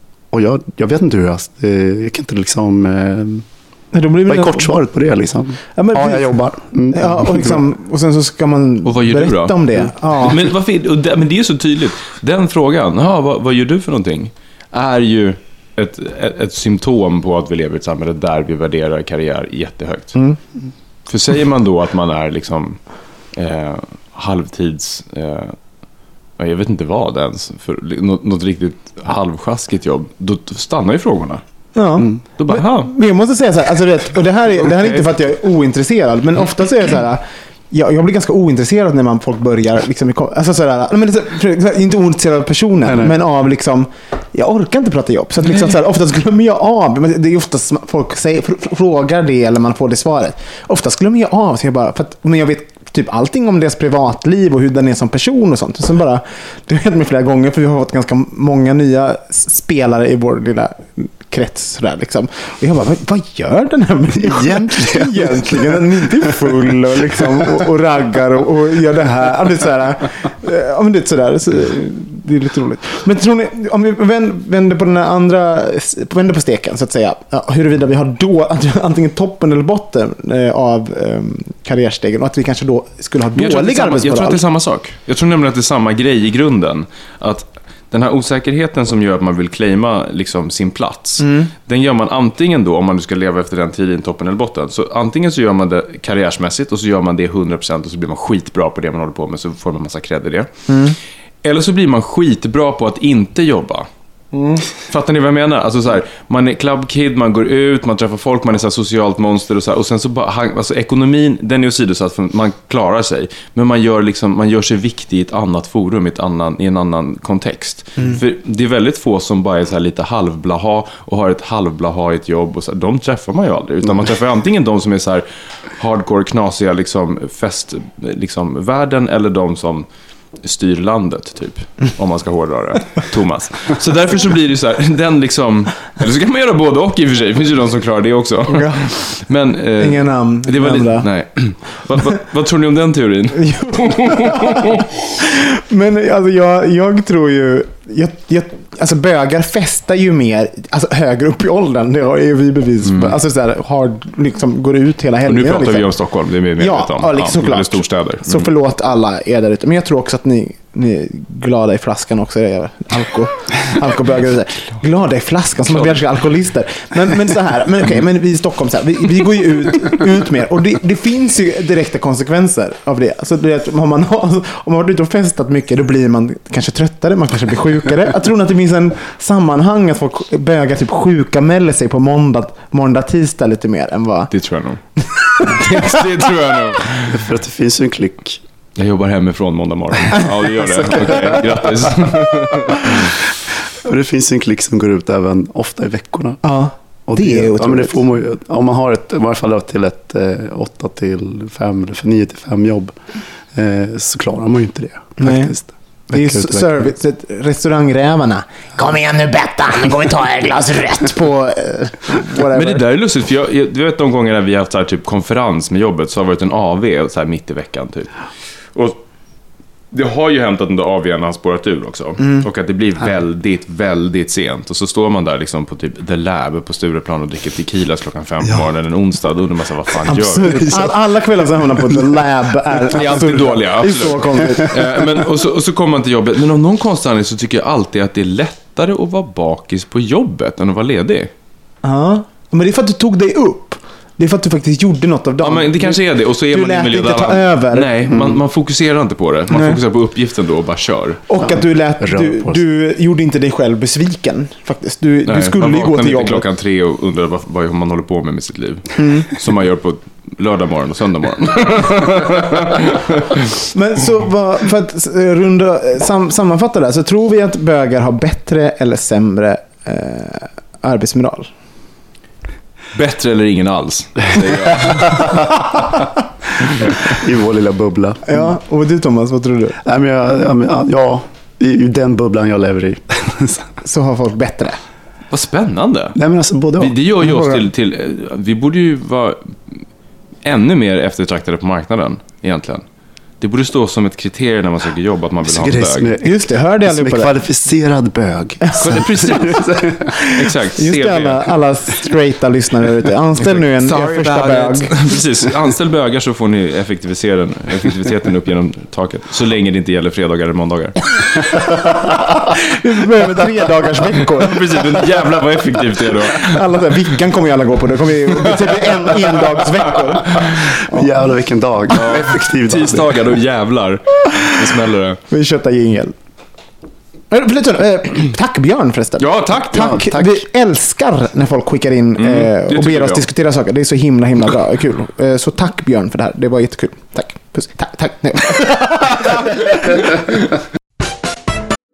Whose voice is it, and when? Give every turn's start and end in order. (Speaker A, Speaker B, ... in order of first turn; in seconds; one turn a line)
Speaker A: 0.3-3.5
Speaker B: 3.9-4.8
Speaker A: 4.3-7.6
Speaker B: 5.7-10.4
Speaker C: 8.8-20.2
Speaker C: 21.1-25.6
Speaker C: 26.4-31.4
Speaker B: 31.7-84.4
Speaker C: 32.4-32.9
Speaker C: 34.6-35.0
Speaker A: 42.8-43.1
Speaker A: 64.1-67.6
Speaker C: 83.3-100.5
Speaker B: 91.2-91.5
Speaker B: 100.7-101.0
Speaker C: 101.4-103.9
Speaker B: 104.3-104.6
Speaker C: 104.8-129.9
Speaker C: 130.4-144.8
Speaker B: 138.5-139.1
Speaker B: 139.8-141.1
Speaker B: 143.3-155.9
Speaker C: 152.8-153.2
Speaker C: 155.2-158.5
Speaker B: 156.6-184.3
Speaker C: 165.7-166.0
Speaker C: 184.3-184.8
Speaker B: 185.0-186.3
Speaker C: 185.4-187.2
Speaker A: 187.1-188.4
Speaker C: 188.8-193.0
Speaker A: 190.8-191.9
Speaker A: 192.8-196.4
Speaker B: 196.4-198.0
Speaker A: 197.1-203.0
Speaker A: 203.5-206.9
Speaker B: 205.2-205.5
Speaker B: 206.1-212.8
Speaker C: 212.5-218.1
Speaker C: 218.7-219.0
Speaker C: 219.9-230.8
Speaker B: 222.2-222.5
Speaker B: 230.1-235.2
Speaker A: 230.4-230.9
Speaker A: 231.6-232.0
Speaker C: 232.9-241.3
Speaker B: 241.8-248.0
Speaker C: 245.4-251.2
Speaker A: 248.1-248.4
Speaker B: 249.5-249.8
Speaker B: 251.3-256.5
Speaker A: 251.4-252.6
Speaker C: 255.2-263.4
Speaker B: 259.0-259.3
Speaker B: 263.6-271.5
Speaker C: 272.9-275.4
Speaker A: 276.8-278.4
Speaker B: 278.2-279.8
Speaker A: 279.8-283.7
Speaker B: 283.8-284.8
Speaker C: 285.3-286.2
Speaker A: 286.1-286.9
Speaker C: 286.8-289.8
Speaker B: 287.2-287.7
Speaker C: 290.4-292.8
Speaker C: 293.4-296.1
Speaker A: 295.4-300.2
Speaker B: 296.2-297.4
Speaker C: 298.8-299.7
Speaker C: 300.2-301.4
Speaker B: 300.8-305.0
Speaker C: 303.4-311.0
Speaker B: 312.1-315.2
Speaker C: 314.4-316.6
Speaker B: 316.0-321.1
Speaker A: 320.5-323.2
Speaker C: 321.9-325.2
Speaker B: 325.3-326.1
Speaker B: 327.3-340.2
Speaker C: 329.2-330.0
Speaker A: 329.7-330.4
Speaker C: 332.2-333.3